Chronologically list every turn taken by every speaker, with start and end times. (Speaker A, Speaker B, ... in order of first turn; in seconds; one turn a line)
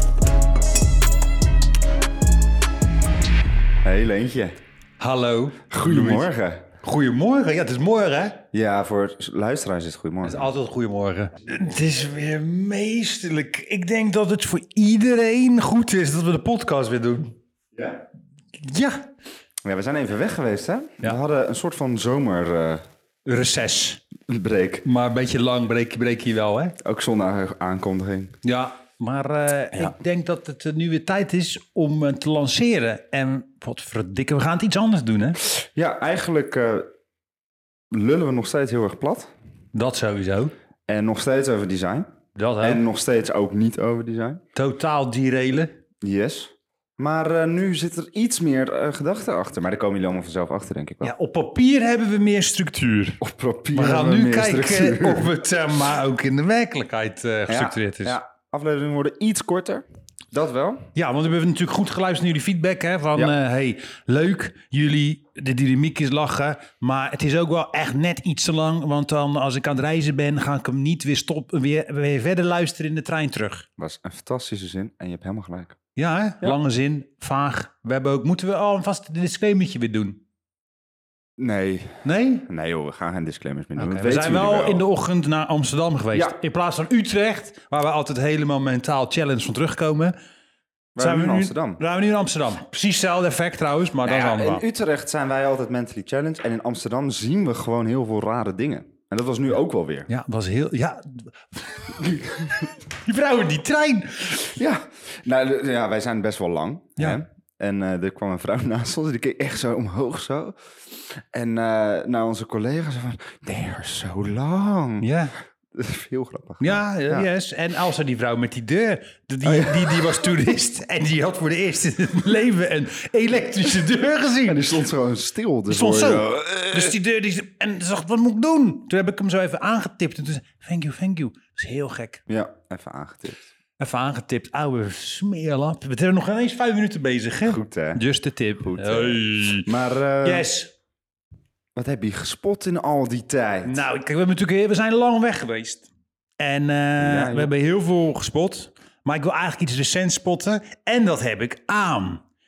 Speaker A: 3.8-4.5
Speaker B: 5.0-6.3
Speaker A: 5.7-6.7
Speaker B: 6.8-8.4
Speaker A: 8.5-10.5
Speaker B: 10.2-17.3
Speaker A: 17.7-18.0
Speaker B: 18.6-19.1
Speaker A: 19.6-22.8
Speaker B: 23.2-24.0
Speaker A: 24.3-24.8
Speaker B: 24.8-26.8
Speaker A: 26.8-28.3
Speaker B: 28.4-35.4
Speaker A: 35.5-36.9
Speaker A: 37.9-39.3
Speaker B: 39.7-40.5
Speaker A: 40.9-42.1
Speaker B: 42.4-42.8
Speaker A: 42.6-44.4
Speaker B: 44.5-45.7
Speaker A: 46.0-51.1
Speaker B: 51.0-53.2
Speaker A: 53.2-55.4
Speaker B: 53.7-58.2
Speaker A: 57.5-60.9
Speaker B: 60.9-73.7
Speaker A: 73.8-75.8
Speaker B: 76.0-80.2
Speaker A: 81.4-84.8
Speaker B: 82.0-82.5
Speaker B: 83.8-90.1
Speaker A: 91.0-91.8
Speaker B: 91.0-94.6
Speaker A: 94.0-100.1
Speaker B: 100.1-104.6
Speaker A: 102.0-102.6
Speaker A: 104.4-110.6
Speaker A: 111.1-115.1
Speaker B: 115.0-115.3
Speaker A: 115.7-117.3
Speaker B: 116.6-124.6
Speaker A: 119.4-120.3
Speaker A: 124.5-127.0
Speaker B: 125.7-132.2
Speaker A: 132.3-133.4
Speaker B: 133.8-139.7
Speaker A: 137.4-138.0
Speaker A: 138.7-140.4
Speaker B: 140.2-140.7
Speaker A: 141.7-143.8
Speaker B: 143.6-145.9
Speaker B: 146.4-152.2
Speaker A: 147.0-147.5